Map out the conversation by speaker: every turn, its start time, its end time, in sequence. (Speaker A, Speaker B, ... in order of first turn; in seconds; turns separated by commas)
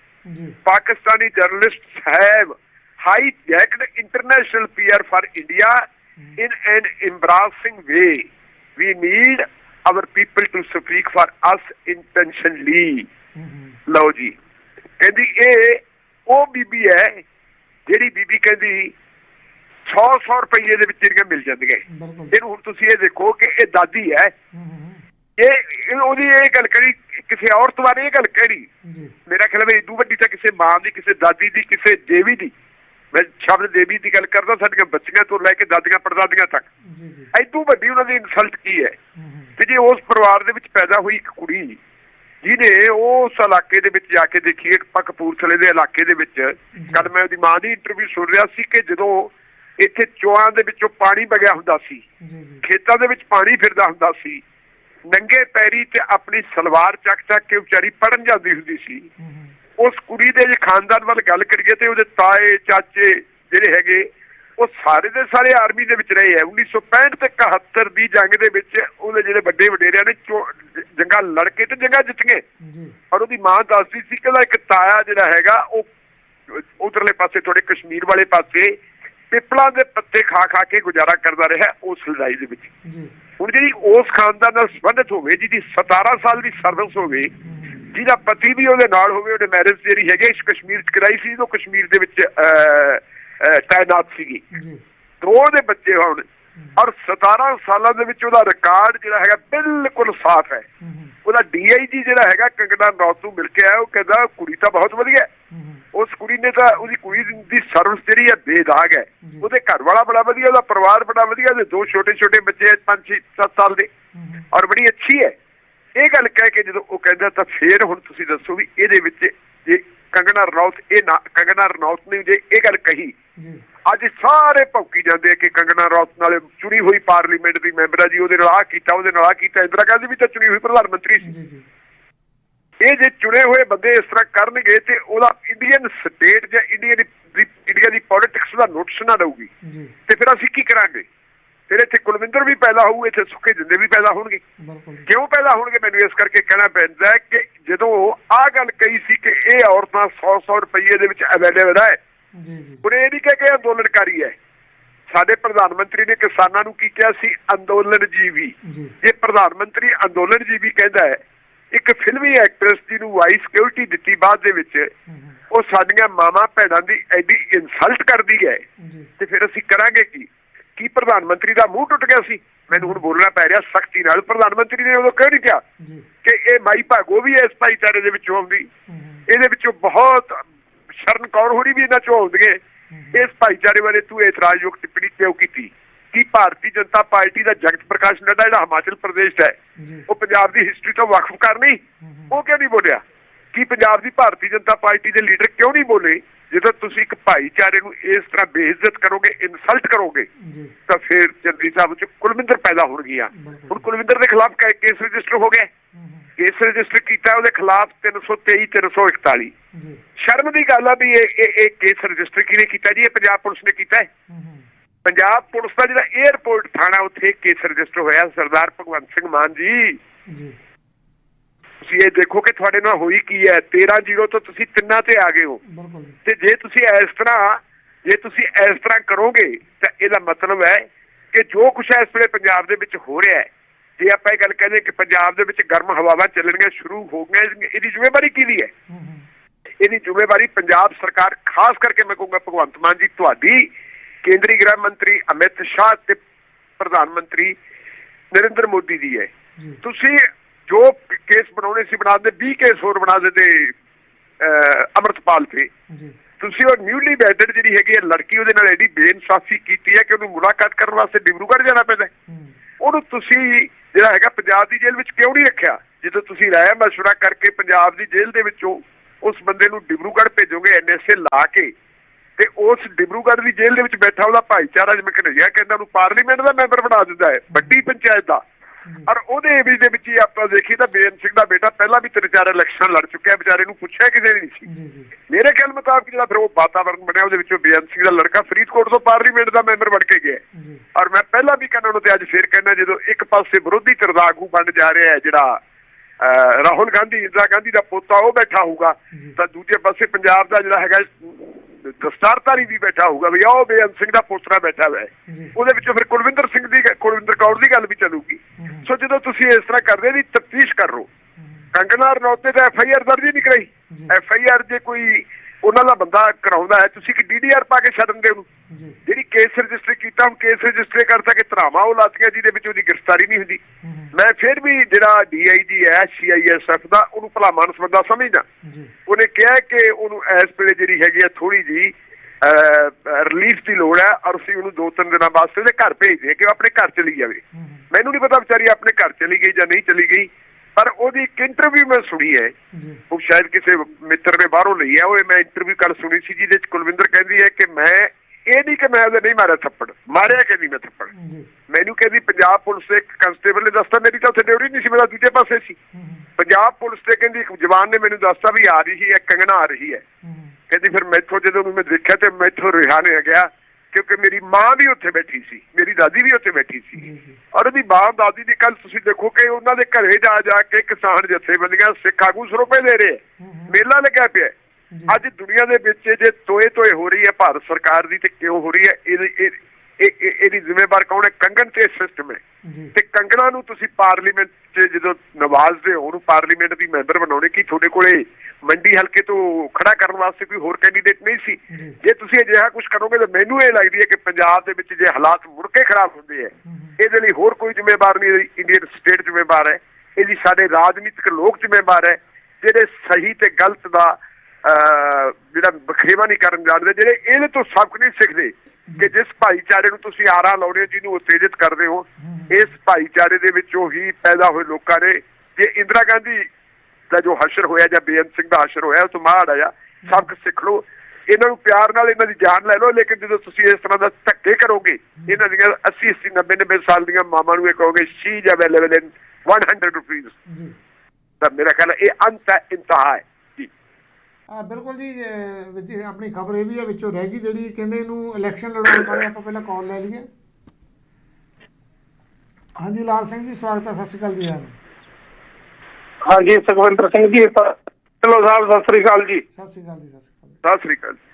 Speaker A: 0.3-0.6, Speaker B: 0.7-5.8, Speaker B: 6.4-13.1, Speaker A: 13.3-13.8, Speaker B: 13.9-14.3, Speaker B: 15.0-17.2, Speaker B: 17.9-18.9, Speaker B: 19.9-24.3, Speaker A: 21.9-22.4, Speaker A: 24.5-25.0, Speaker B: 25.4-28.7, Speaker A: 28.8-29.1, Speaker B: 29.3-32.5, Speaker B: 33.1-36.7, Speaker A: 36.8-37.3, Speaker B: 37.3-39.0, Speaker A: 39.1-39.5, Speaker B: 39.6-41.8, Speaker B: 42.4-52.0, Speaker A: 46.7-47.1, Speaker A: 52.2-52.6, Speaker B: 52.6-54.4, Speaker B: 55.1-59.1, Speaker A: 59.2-59.5, Speaker B: 59.8-72.4, Speaker A: 72.6-73.0, Speaker B: 73.1-75.9, Speaker B: 76.5-78.8, Speaker B: 79.3-82.7, Speaker A: 82.8-83.1, Speaker B: 83.4-87.3, Speaker A: 87.4-87.8, Speaker B: 87.9-94.4, Speaker A: 94.5-94.8, Speaker B: 95.2-100.7, Speaker A: 100.8-101.1, Speaker B: 101.2-105.3, Speaker A: 105.5-105.8, Speaker B: 105.9-113.9, Speaker A: 114.1-114.5, Speaker B: 114.5-115.3, Speaker B: 116.0-123.1, Speaker A: 123.4-123.6, Speaker B: 123.9-131.3, Speaker A: 131.2-131.7, Speaker B: 132.8-139.5, Speaker A: 139.6-139.9, Speaker B: 140.1-141.1, Speaker B: 141.7-144.4, Speaker A: 144.6-145.1, Speaker B: 145.1-152.0, Speaker A: 152.3-152.8, Speaker B: 152.8-154.3, Speaker B: 155.1-161.2, Speaker A: 158.6-158.9, Speaker B: 161.7-164.9, Speaker A: 165.1-165.4, Speaker B: 165.5-168.6, Speaker A: 168.8-169.1, Speaker B: 169.2-175.6, Speaker A: 172.7-173.0, Speaker A: 175.8-176.1, Speaker B: 176.2-178.7, Speaker A: 178.9-179.2, Speaker B: 179.3-180.4, Speaker B: 181.0-182.6, Speaker A: 182.9-183.2, Speaker B: 183.1-189.6, Speaker A: 189.8-190.1, Speaker B: 190.1-200.3, Speaker A: 192.0-192.3, Speaker A: 200.4-200.7, Speaker B: 200.9-205.7, Speaker A: 203.3-203.9, Speaker A: 205.9-206.3, Speaker B: 206.4-209.5, Speaker A: 209.7-210.0, Speaker B: 210.2-214.1, Speaker A: 214.3-214.7, Speaker B: 215.0-220.0, Speaker A: 220.3-220.6, Speaker B: 221.8-225.6, Speaker A: 225.6-226.2, Speaker B: 226.2-238.7, Speaker A: 238.9-239.2, Speaker B: 239.8-243.7, Speaker B: 244.2-246.2, Speaker B: 246.8-247.6, Speaker B: 248.3-249.3, Speaker B: 249.8-253.7, Speaker B: 254.4-255.7, Speaker A: 255.9-256.1, Speaker B: 256.4-262.1, Speaker A: 262.3-262.6, Speaker B: 262.8-271.7, Speaker B: 272.4-278.4, Speaker A: 277.5-277.8, Speaker A: 278.8-279.1, Speaker B: 279.1-284.7, Speaker A: 284.6-285.1, Speaker B: 285.3-290.4, Speaker A: 290.5-290.8, Speaker B: 290.9-295.6, Speaker B: 296.2-311.1, Speaker A: 305.3-305.6, Speaker A: 308.6-308.9, Speaker A: 311.4-311.6, Speaker B: 311.7-318.5, Speaker A: 318.7-319.0, Speaker B: 319.0-323.6, Speaker A: 323.8-324.1, Speaker B: 324.1-328.4, Speaker A: 328.6-328.9, Speaker B: 329.1-342.5, Speaker A: 337.5-337.8, Speaker A: 342.7-343.0, Speaker B: 343.1-351.1, Speaker A: 351.1-351.5, Speaker B: 351.7-355.8, Speaker A: 355.9-356.3, Speaker B: 356.4-360.0, Speaker A: 360.2-360.5, Speaker B: 360.7-374.5, Speaker A: 367.0-367.4, Speaker A: 373.4-373.7, Speaker A: 374.9-375.2, Speaker B: 375.1-382.4, Speaker A: 382.6-382.9, Speaker B: 382.9-416.5, Speaker A: 391.7-392.0, Speaker A: 396.6-396.9, Speaker A: 412.2-412.7, Speaker B: 417.1-430.4, Speaker A: 420.0-420.3, Speaker A: 430.5-430.7, Speaker B: 431.4-433.7, Speaker A: 434.5-440.3, Speaker A: 442.8-444.8, Speaker C: 446.2-449.4, Speaker A: 449.5-450.6, Speaker B: 450.6-451.2